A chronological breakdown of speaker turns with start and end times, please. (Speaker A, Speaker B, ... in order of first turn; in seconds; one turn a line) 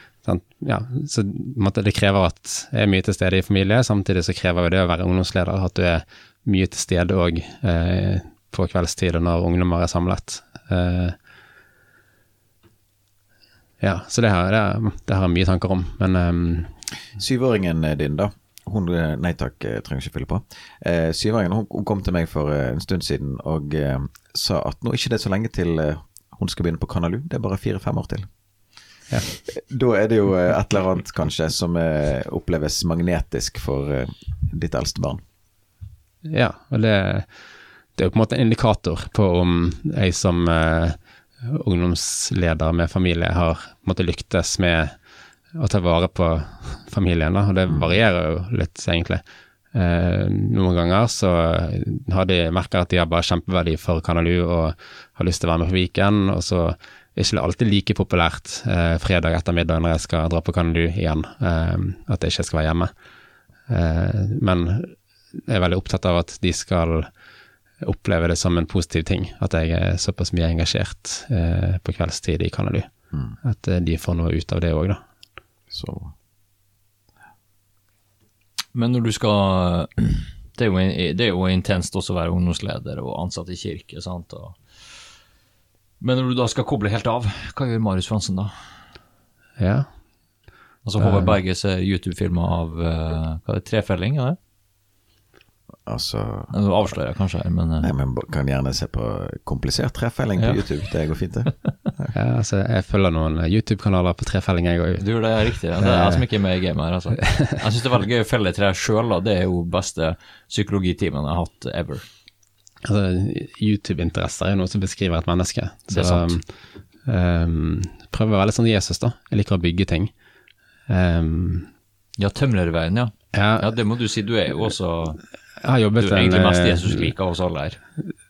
Speaker A: 0.2-11.2
Speaker A: 13.8-16.7
Speaker B: 17.2-28.3
Speaker B: 29.4-35.2
Speaker A: 36.3-37.3
Speaker A: 38.0-45.0
Speaker A: 45.6-49.2
Speaker B: 47.7-48.0
Speaker A: 49.7-62.9
Speaker A: 63.7-67.1
Speaker A: 67.8-72.9
Speaker A: 73.4-75.0
Speaker B: 75.7-76.1
Speaker C: 78.7-85.0
Speaker C: 86.0-88.5
Speaker A: 89.6-89.9
Speaker C: 90.8-94.4
Speaker A: 91.0-91.4
Speaker B: 95.9-96.5
Speaker C: 96.5-97.9
Speaker B: 97.8-102.1
Speaker C: 100.4-100.7
Speaker A: 102.1-105.1
Speaker C: 105.0-112.0
Speaker A: 105.8-106.2
Speaker A: 112.8-116.5
Speaker C: 115.9-116.3
Speaker A: 117.0-120.1
Speaker A: 120.9-121.7
Speaker C: 122.2-125.2
Speaker A: 123.3-123.7
Speaker A: 125.6-127.1
Speaker C: 126.0-127.8